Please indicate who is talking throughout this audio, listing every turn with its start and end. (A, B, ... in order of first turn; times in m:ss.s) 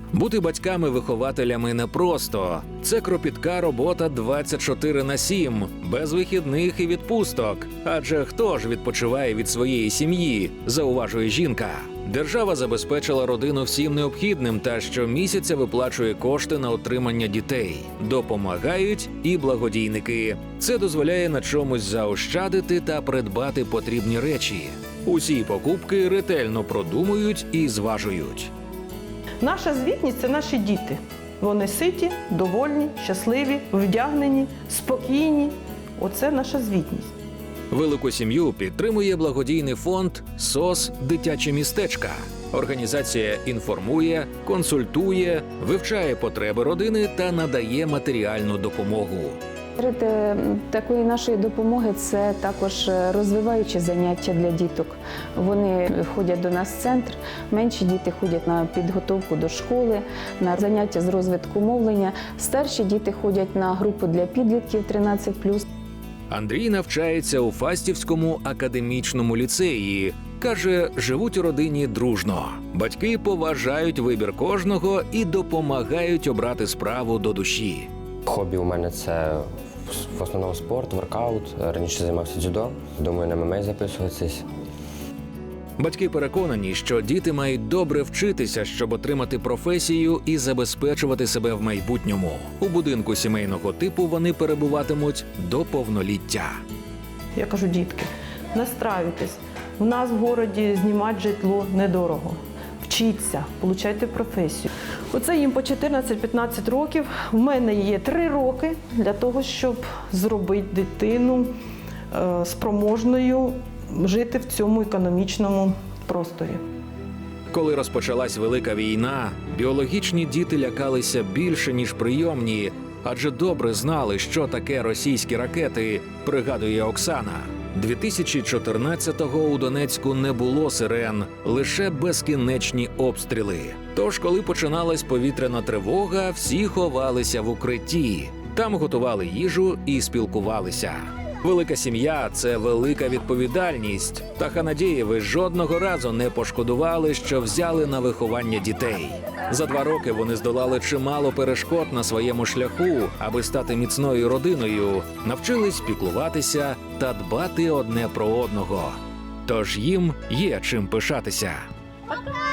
0:00.1-0:28.5 A
0:29.4-0:37.1 B
0:37.7-0:49.4 A
0:49.8-1:05.6 C
1:06.3-1:17.9 A
1:18.2-1:24.4 D
1:25.8-1:36.6 A
1:37.3-1:51.5 B
1:52.1-1:56.6 B
1:57.5-2:41.6 A